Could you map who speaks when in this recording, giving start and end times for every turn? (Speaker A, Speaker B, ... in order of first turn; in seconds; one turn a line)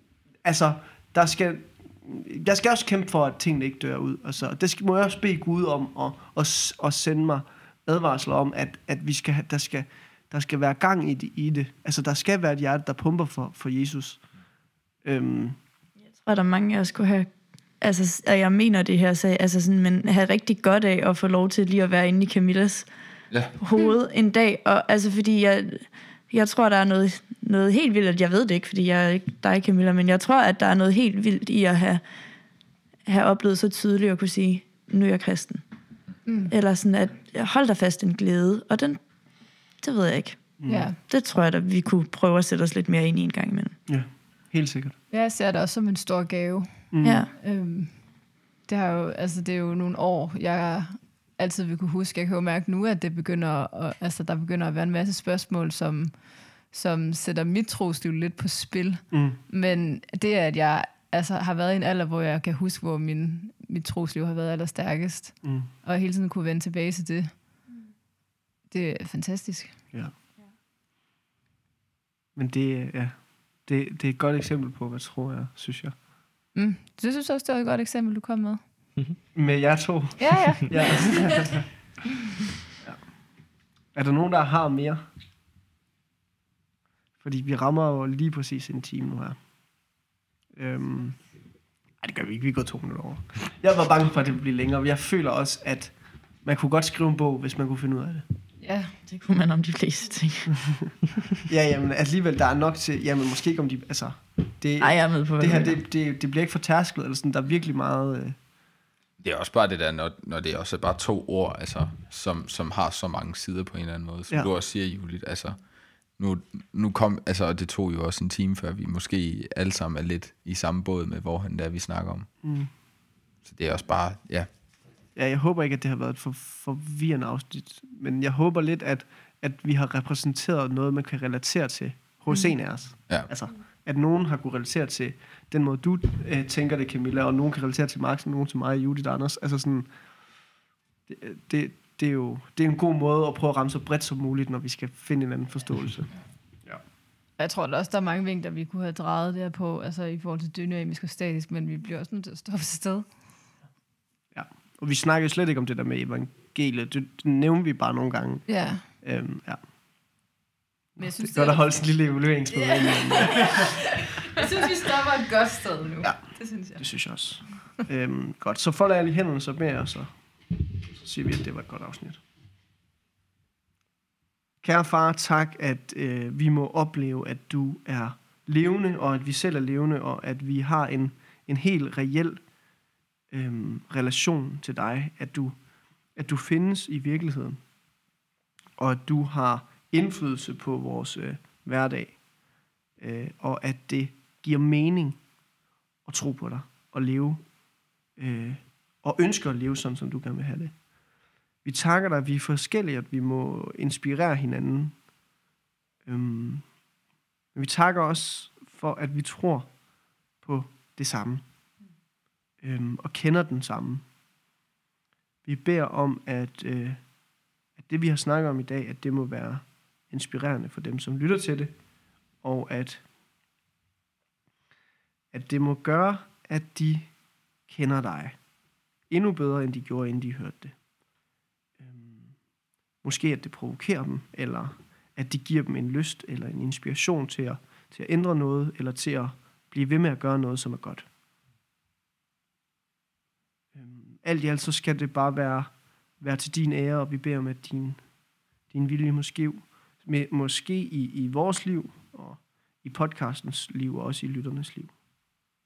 Speaker A: 0.4-14.2
Speaker A: 15.0-15.6
Speaker B: 16.2-17.3
Speaker B: 17.8-22.9
Speaker B: 23.6-32.0
Speaker B: 33.0-35.6
Speaker C: 36.2-36.5
Speaker B: 36.5-39.0
Speaker B: 39.8-40.5
Speaker A: 40.6-40.9
Speaker C: 40.7-41.0
Speaker B: 41.1-43.7
Speaker A: 43.9-44.9
Speaker C: 45.1-47.9
Speaker A: 46.9-47.2
Speaker B: 47.0-47.3
Speaker C: 48.7-67.3
Speaker A: 59.1-59.4
Speaker C: 68.7-69.8
Speaker A: 72.3-75.9
Speaker C: 76.5-78.6
Speaker A: 79.3-81.7
Speaker C: 80.2-81.6
Speaker A: 83.9-85.0
Speaker A: 87.2-89.4
Speaker A: 90.5-91.2
Speaker A: 92.0-98.2
Speaker C: 98.6-98.9
Speaker B: 99.1-100.5
Speaker A: 101.4-108.4
Speaker B: 104.8-105.8
Speaker D: 109.2-115.6
Speaker D: 116.2-122.3
Speaker A: 122.4-122.7
Speaker D: 123.5-124.5
Speaker A: 125.2-139.9
Speaker A: 141.1-146.1
Speaker C: 147.4-153.1
Speaker A: 154.3-159.6
Speaker C: 158.5-158.8
Speaker C: 161.0-161.8
Speaker A: 161.2-163.8
Speaker C: 162.5-166.8
Speaker A: 166.0-170.1
Speaker A: 171.0-172.2
Speaker A: 174.6-182.4
Speaker A: 183.3-185.6
Speaker A: 186.2-187.6
Speaker A: 188.8-192.2
Speaker A: 193.0-195.2
Speaker A: 196.1-197.4
Speaker A: 198.2-200.7
Speaker A: 201.6-204.9
Speaker A: 206.1-206.7
Speaker A: 207.5-209.7
Speaker A: 210.4-211.4
Speaker A: 212.6-214.0
Speaker A: 215.4-217.0
Speaker A: 217.8-221.7
Speaker A: 222.4-223.0
Speaker A: 225.3-227.1
Speaker A: 227.7-228.4
Speaker A: 229.1-230.7
Speaker A: 231.8-232.3
Speaker A: 233.0-241.1
Speaker A: 243.8-248.0
Speaker A: 248.7-254.9